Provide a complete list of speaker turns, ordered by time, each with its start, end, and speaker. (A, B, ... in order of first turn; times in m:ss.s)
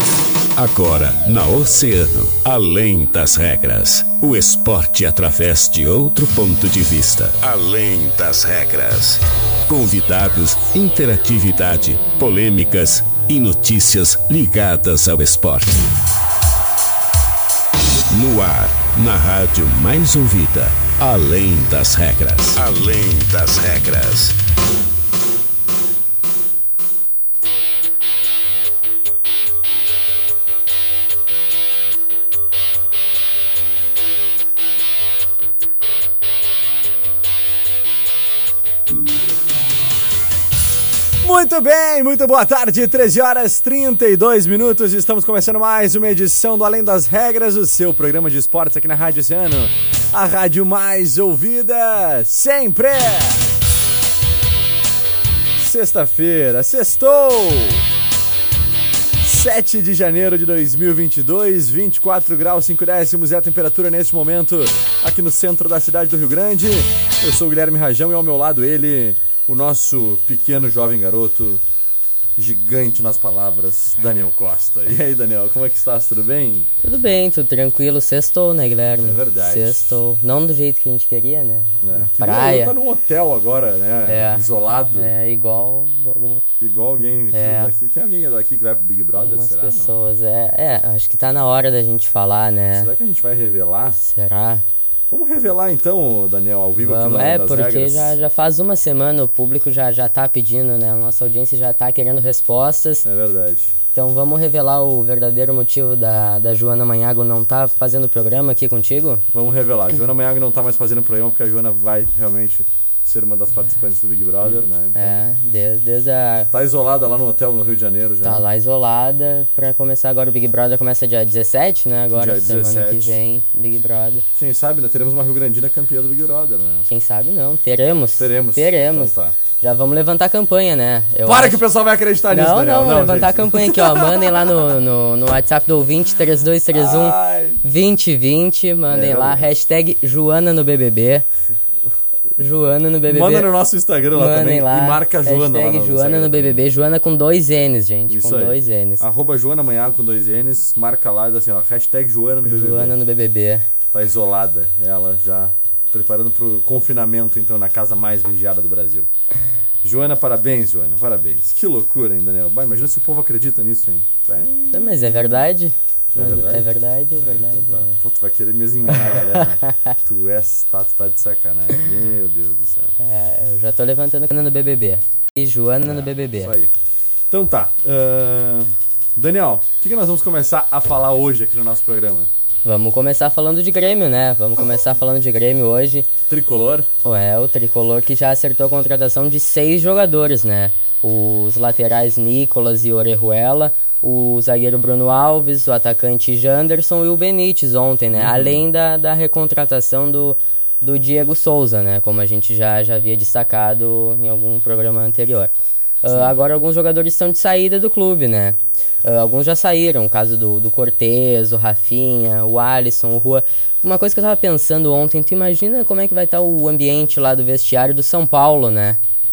0:00.6-0:15.8 A
0:18.1-0:24.3 A
0:41.2-0:53.5 B
0:55.6-0:57.8 B
0:59.2-1:11.6 B
1:12.4-1:16.7 B
1:16.8-1:22.7 C
1:19.0-1:20.0 B
1:21.8-1:25.1 B
1:24.1-1:26.4 C
1:26.6-1:29.9 B
1:27.3-1:27.7 C
1:29.2-1:32.9 C
1:32.8-1:34.0 B
1:34.0-1:34.6 C
1:35.1-1:38.2 B
1:36.8-1:43.1 C
1:43.0-1:43.7 B
1:44.0-1:49.2 C
1:49.3-1:55.2 B
1:54.9-1:56.5 C
1:56.5-1:58.4 B
1:58.2-2:04.2 C
2:02.1-2:03.2 B
2:04.4-2:06.9 B
2:06.9-2:11.6 C
2:08.2-2:09.4 B
2:11.2-2:14.7 B
2:12.3-2:21.3 C
2:16.7-2:17.6 B
2:18.9-2:19.5 B
2:22.4-2:23.5 C
2:23.1-2:26.7 B
2:24.1-2:29.0 C
2:28.1-2:33.0 B
2:32.4-2:33.7 C
2:33.9-2:39.1 B
2:39.8-2:45.4 B
2:44.7-2:48.0 C
2:46.2-2:53.0 B
2:49.0-2:49.9 C
2:53.0-2:56.5 C
2:55.8-2:56.7 B
2:57.3-3:02.3 B
3:02.6-3:06.1 C
3:06.3-3:06.9 B
3:07.0-3:25.5 C
3:18.1-3:18.6 B
3:26.0-3:39.0 C
3:26.1-3:26.4 B